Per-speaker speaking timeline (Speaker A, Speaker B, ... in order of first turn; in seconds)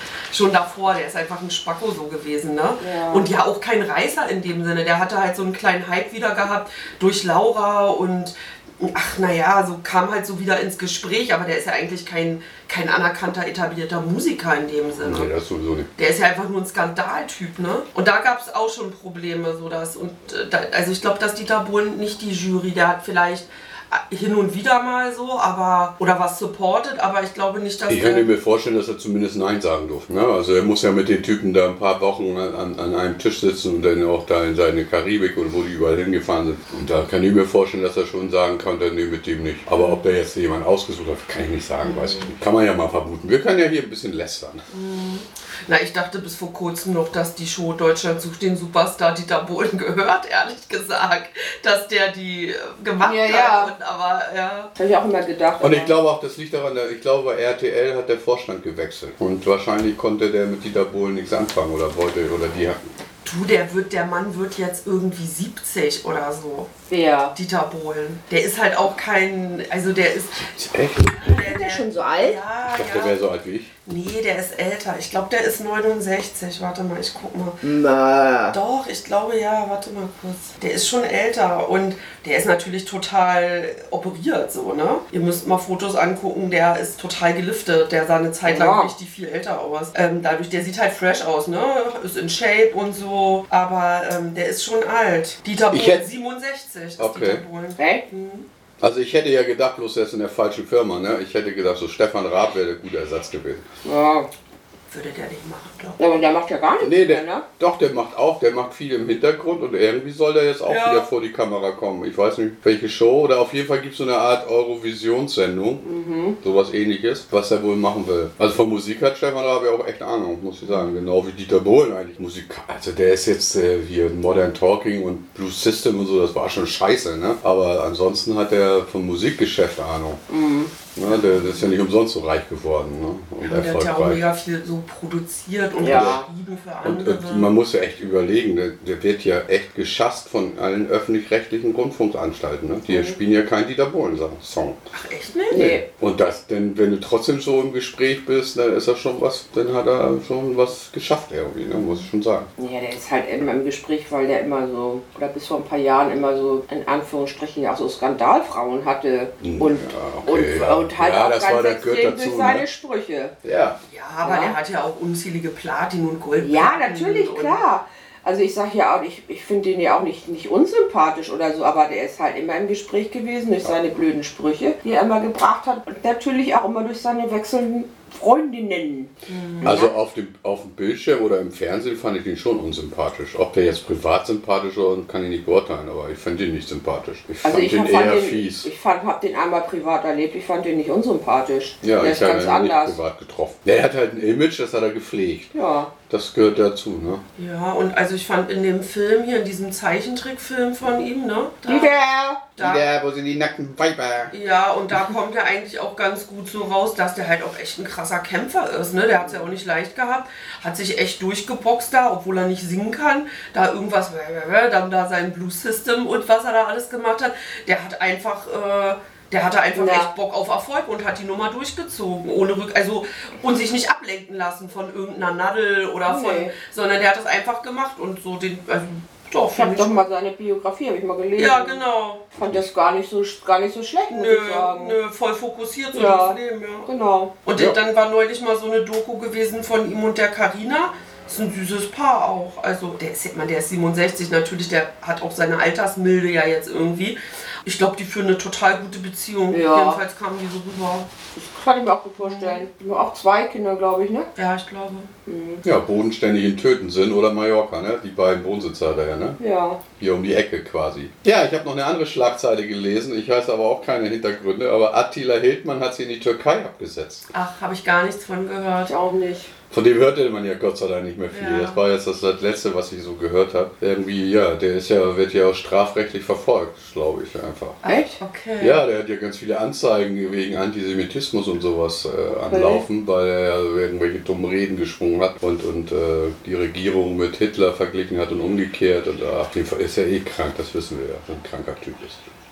Speaker A: 0.3-15.3, 16.0-28.3, 44.7-54.7, 63.2-66.7, 67.3-73.2, 73.9-77.6, 78.5-98.5, 104.9-106.0, 110.7-111.1, 131.1-131.7, 133.4-137.5, 144.9-145.6, 163.9-167.6, 179.3-179.8, 197.4-202.0, 202.6-202.8, 204.3-230.0, 231.4-232.3, 234.1-236.9, 237.4-251.1, 252.2-252.7, 254.4-255.1, 267.3-268.9, 271.3-271.8, 277.8-278.8
Speaker B: 2.8-3.3, 53.0-53.7, 54.8-56.0, 66.9-67.3, 71.2-72.4, 77.6-78.6, 88.5-88.9, 97.8-98.0, 103.8-104.3, 106.0-107.5, 115.8-116.4, 130.3-130.7, 135.8-136.3, 142.9-143.2, 145.5-145.8, 152.6-163.3, 164.2-164.6, 166.4-179.9, 187.4-193.0, 195.5-195.9, 201.7-202.5, 209.2-209.5, 219.8-220.1, 226.1-226.5, 229.5-231.8, 232.3-235.0, 235.9-237.3, 249.5-250.0, 251.3-254.3, 255.3-255.6, 259.4-259.8, 268.9-269.5, 277.9-278.2, 282.5-282.8
Speaker C: 15.0-15.9, 27.9-44.6, 55.6-62.8, 70.5-71.2, 72.7-73.7, 95.7-96.0, 97.0-97.4, 98.8-103.7, 106.8-115.9, 116.4-130.2, 130.9-134.2, 135.9-136.2, 136.8-144.8, 145.5-152.5, 159.4-162.7, 163.4-163.8, 179.6-188.7, 191.8-195.5, 196.1-197.2, 202.6-204.3, 232.4-232.7, 255.6-259.4, 260.0-267.2, 269.7-277.8, 278.6-292.3